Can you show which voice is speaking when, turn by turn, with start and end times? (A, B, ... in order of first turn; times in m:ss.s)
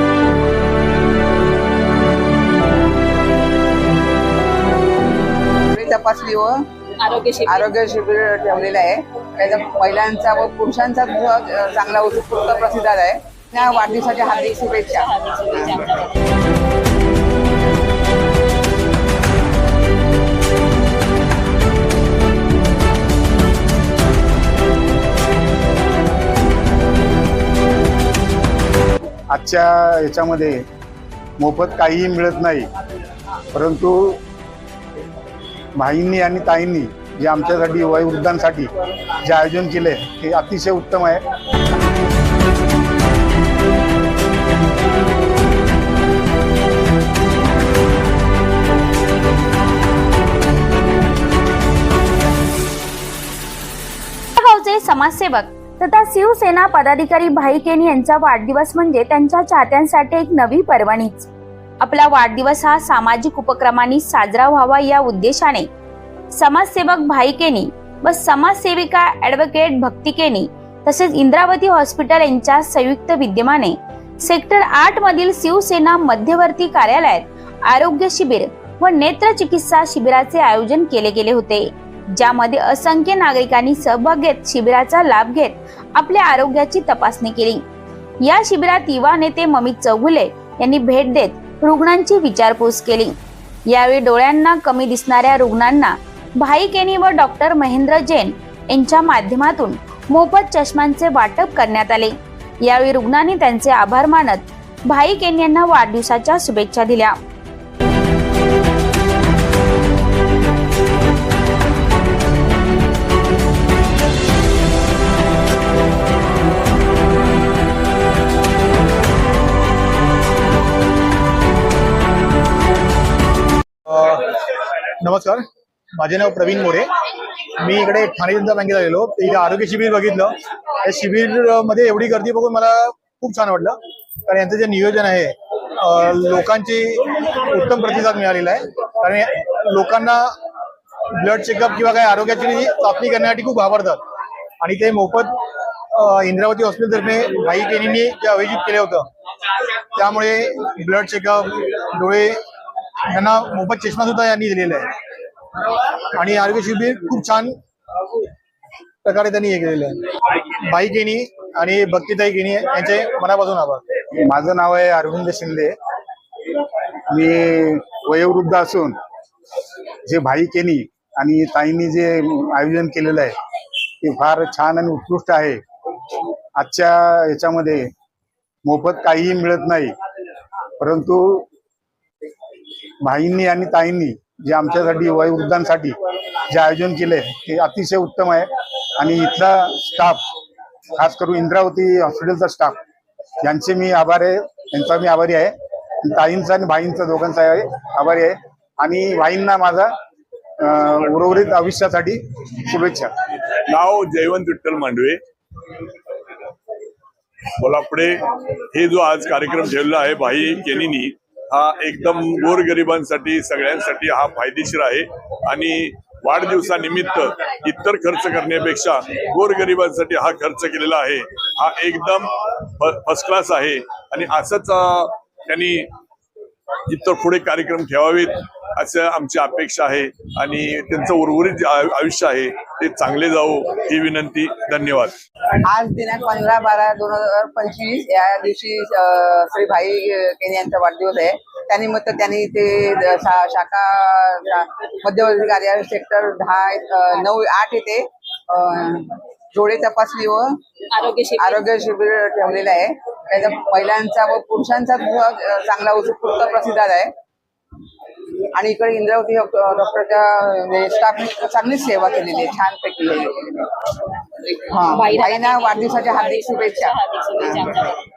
0:05.7-0:06.6 A
0:07.0-0:07.7 B
0:07.4-0:15.8 A
0:14.2-0:16.1 B
0:29.3-0:30.6 C
0:31.4-0:32.7 C
0:33.5-0:34.2 C
0:35.8-0:41.2 C
0:54.4-1:01.3 D
1:01.8-1:05.7 D
1:06.3-1:27.6 D
1:28.2-1:33.2 D
1:33.7-1:47.2 D
2:03.9-2:04.4 E
2:05.0-2:06.9 E
2:07.6-2:20.3 E
2:21.2-2:24.0 E
2:24.6-2:25.4 E
2:25.9-2:29.1 E
2:30.0-2:32.4 E
2:33.1-2:34.9 E
2:36.1-2:37.6 E
2:39.0-2:40.0 E
2:40.6-2:43.8 E
2:44.2-2:45.8 C
2:47.1-2:49.0 C
2:50.1-2:53.4 C
2:54.0-2:55.6 C
2:56.6-2:57.9 C
2:58.7-3:00.0 C
3:00.8-3:01.5 C
3:03.0-3:06.0 C
3:06.5-3:10.3 C
3:11.0-3:12.8 C
3:13.4-3:19.9 C
3:20.6-3:23.1 C
3:23.7-3:25.2 F
3:27.6-3:45.9 F
3:46.9-3:55.2 F
3:55.6-4:10.5 A
4:10.9-4:11.6 B
4:11.4-4:17.1 A
4:18.5-4:27.8 A
4:24.9-4:28.0 B